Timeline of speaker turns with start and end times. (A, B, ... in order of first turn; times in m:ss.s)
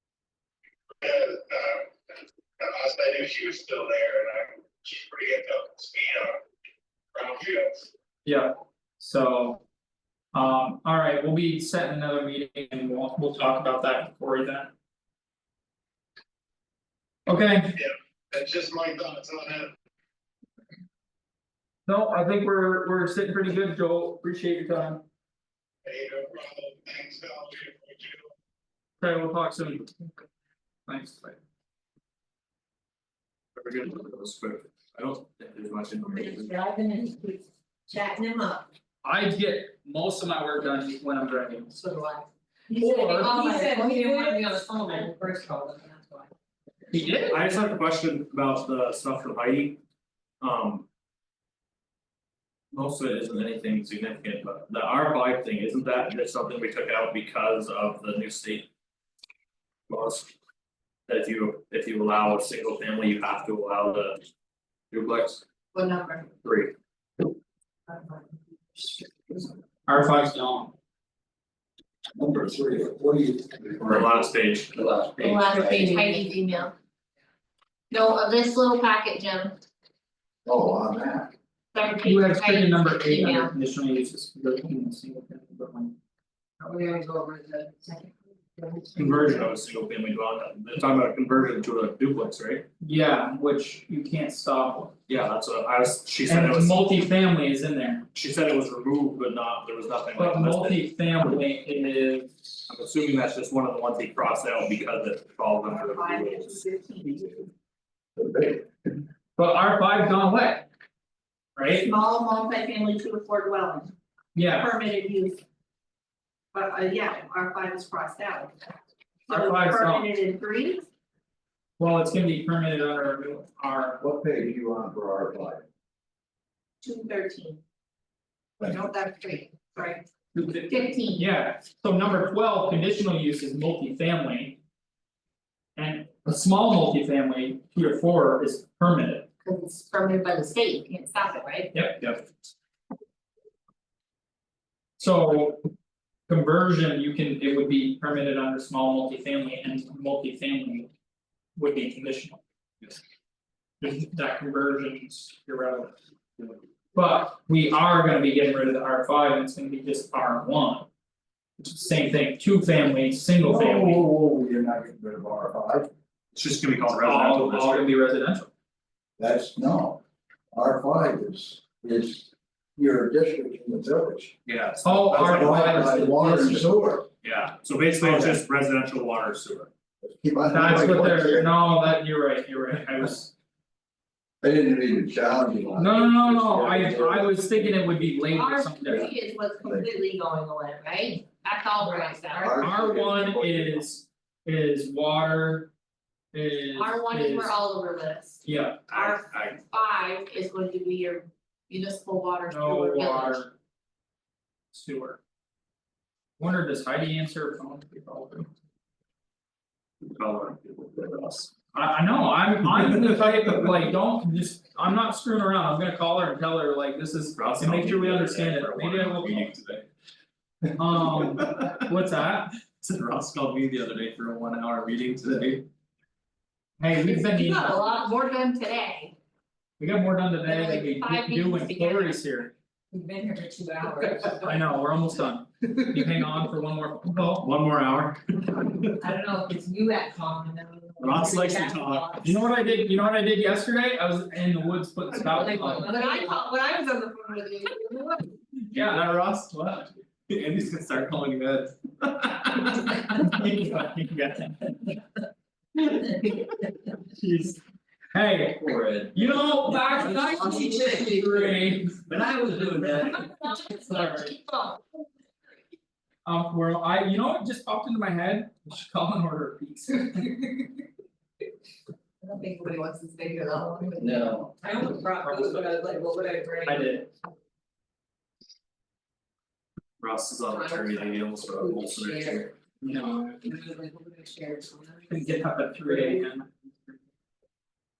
0:01.0-0:06.4 A
0:07.1-0:07.9 A
0:08.2-0:09.6 B
0:10.3-0:14.7 B
0:17.3-0:17.8 B
0:17.7-0:19.7 A
0:21.8-0:25.0 B
0:25.8-0:28.3 A
0:29.0-0:29.9 B
0:30.9-0:31.4 B
0:33.5-0:36.6 C
0:36.0-0:38.7 D
0:39.0-0:41.7 B
0:41.7-0:42.3 E
0:42.7-0:46.3 D
0:42.8-0:43.3 B
0:42.8-0:45.2 E
0:46.9-0:47.4 B
0:46.9-0:49.8 C
0:50.4-0:50.8 C
0:52.7-0:58.7 C
0:59.9-1:00.3 C
1:01.1-1:04.2 C
1:04.9-1:05.4 C
1:05.7-1:06.3 E
1:06.4-1:06.7 C
1:07.9-1:08.2 E
1:09.9-1:10.7 B
1:12.1-1:14.1 F
1:13.8-1:15.5 C
1:14.8-1:15.7 F
1:15.2-1:16.7 E
1:15.7-1:16.1 D
1:17.9-1:19.6 E
1:20.4-1:21.3 F
1:21.7-1:23.5 E
1:22.0-1:26.0 B
1:26.6-1:28.9 D
1:29.0-1:32.6 C
1:29.0-1:29.5 B
1:32.8-1:35.0 B
1:35.1-1:36.8 C
1:36.2-1:38.0 B
1:38.1-1:40.8 C
1:40.1-1:42.4 B
1:42.7-1:46.6 C
1:45.6-1:47.4 E
1:48.2-1:48.7 F
1:49.4-1:50.7 B
1:51.6-1:51.8 B
1:51.7-1:53.9 E
1:54.3-1:54.7 B
1:54.4-1:55.4 E
1:56.5-1:58.7 E
1:59.3-2:00.8 E
1:59.3-2:00.1 B
2:01.8-2:04.0 B
2:04.0-2:05.6 F
2:06.8-2:07.6 E
2:08.6-2:10.1 E
2:10.3-2:14.6 B
2:10.7-2:11.2 E
2:15.8-2:19.3 B
2:19.4-2:21.7 E
2:21.7-2:22.2 B
2:25.0-2:25.6 B
2:26.3-2:30.9 B
2:31.6-2:32.4 B
2:33.8-2:36.0 B
2:36.9-2:40.9 B
2:41.6-2:44.0 B
2:43.4-2:45.9 F
2:46.3-2:47.9 C
2:46.9-2:48.5 B
2:49.2-2:50.0 F
2:50.5-2:54.3 F
2:54.4-2:55.9 C
2:54.8-2:56.7 B
2:55.0-2:57.1 F
2:57.2-2:59.7 C
2:58.0-2:58.4 B
3:00.0-3:01.6 F
3:00.5-3:03.3 B
3:04.4-3:07.5 F
3:05.8-3:09.1 B
3:08.3-3:12.6 E
3:08.8-3:09.9 F
3:11.8-3:12.2 D
3:12.3-3:13.8 F
3:12.6-3:15.7 B
3:16.3-3:17.5 B
3:16.7-3:23.4 E
3:18.4-3:18.8 B
3:18.9-3:19.6 C
3:22.5-3:23.5 B
3:24.7-3:25.2 B
3:26.4-3:28.5 B
3:30.0-3:31.5 C
3:31.7-3:39.5 B
3:37.3-3:39.9 C
3:40.6-3:41.8 C
3:40.8-3:42.5 B
3:42.8-3:45.6 C
3:46.8-3:47.9 B
3:47.0-3:49.2 E
3:49.8-3:52.5 B
3:50.4-3:52.2 E
3:52.9-3:54.6 D
3:54.4-3:57.5 B
3:57.4-3:58.9 C
3:59.0-4:02.5 D
4:01.0-4:02.2 C
4:02.2-4:05.9 B
4:05.2-4:06.6 D
4:05.8-4:08.2 E
4:07.6-4:07.9 D
4:08.7-4:10.0 B
4:10.3-4:12.9 C
4:13.0-4:14.9 B
4:17.1-4:17.6 B
4:18.1-4:22.0 B
4:18.6-4:19.0 C
4:19.9-4:21.6 D
4:22.1-4:23.1 C
4:23.1-4:24.8 E
4:23.9-4:24.3 B
4:26.2-4:30.3 B
4:30.2-4:30.7 D
4:32.2-4:37.1 D
4:32.8-4:33.7 E
4:34.0-4:34.5 F
4:35.2-4:35.8 B
4:36.6-4:37.1 B
4:40.0-4:42.5 C
4:40.5-4:46.2 D
4:42.8-4:43.4 B
4:45.1-4:46.5 B